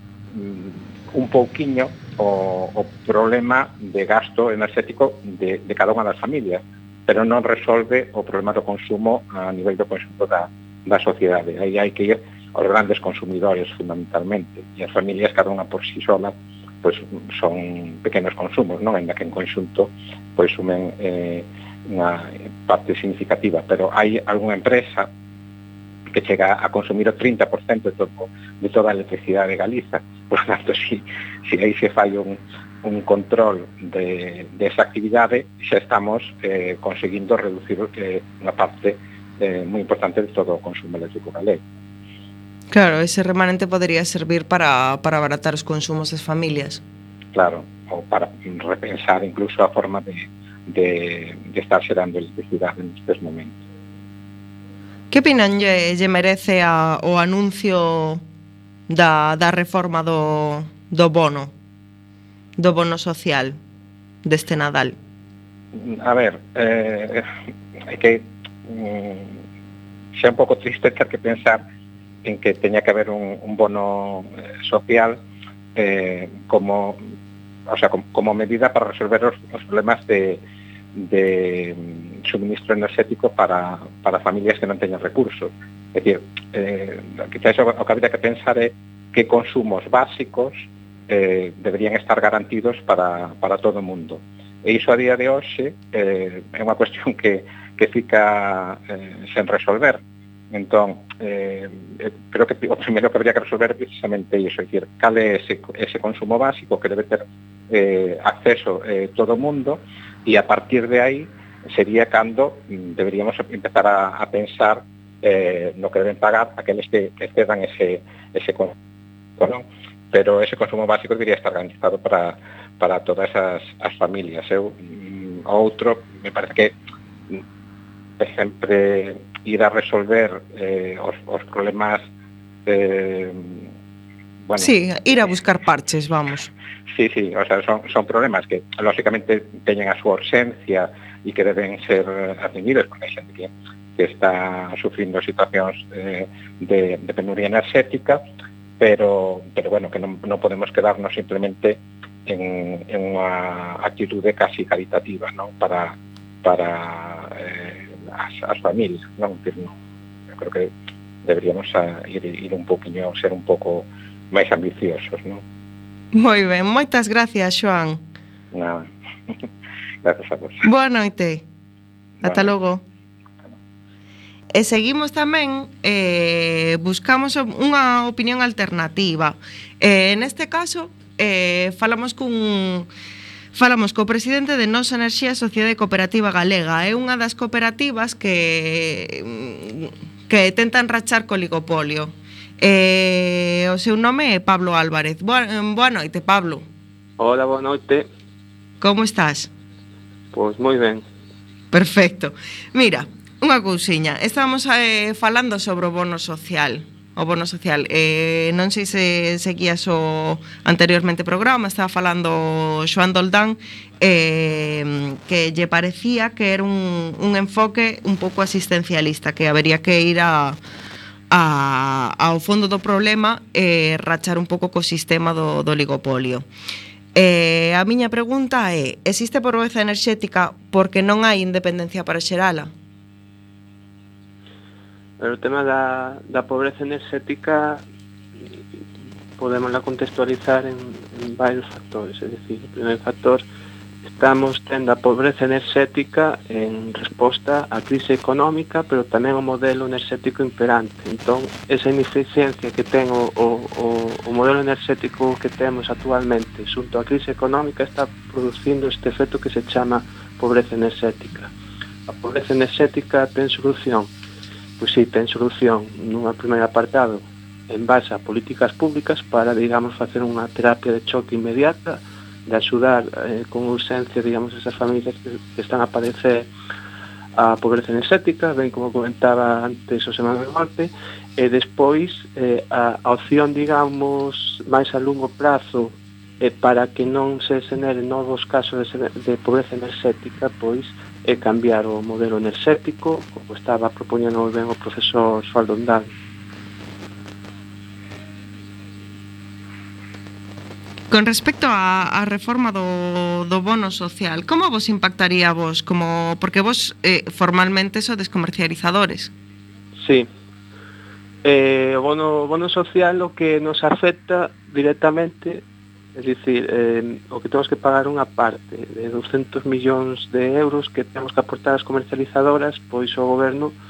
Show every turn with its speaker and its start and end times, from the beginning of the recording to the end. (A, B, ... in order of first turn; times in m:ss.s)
0:00.3-0:25.1 A
0:26.1-0:41.6 A
0:42.7-0:46.8 B
0:47.3-0:53.6 A
0:55.1-0:58.2 B
0:58.9-1:01.5 B
1:02.6-1:03.6 B
1:04.2-1:05.0 B
1:05.7-1:07.3 A
1:07.9-1:09.4 A
1:10.2-1:11.6 A
1:12.2-1:15.2 A
1:15.8-1:17.0 A
1:17.7-1:20.4 A
1:21.0-1:58.8 A
1:59.4-2:06.8 A
2:08.2-2:12.1 A
2:12.7-2:13.7 A
2:14.4-2:14.7 A
2:14.6-2:16.5 B
2:16.9-2:28.2 A
2:28.8-2:39.8 A
2:40.3-2:40.7 A
2:41.2-2:45.4 A
2:46.1-2:48.0 B
2:48.5-2:49.4 A
2:50.0-2:50.6 A
2:50.6-2:51.4 B
2:52.2-2:52.5 A
2:52.2-2:52.8 B
2:54.5-3:02.9 B
3:03.5-3:16.6 B
3:17.2-3:18.1 C
3:18.8-3:19.5 B
3:20.3-3:21.0 C
3:21.7-3:40.6 B
3:41.3-3:46.5 B
3:47.2-3:52.7 B
3:55.2-3:57.8 C
3:59.4-4:03.4 C
4:04.0-4:21.5 C
4:22.1-4:24.1 C
4:24.8-4:36.5 C
4:37.4-4:56.1 C
5:01.1-5:09.3 B
5:10.0-5:10.3 C
5:11.4-5:15.6 C
5:16.2-5:23.7 C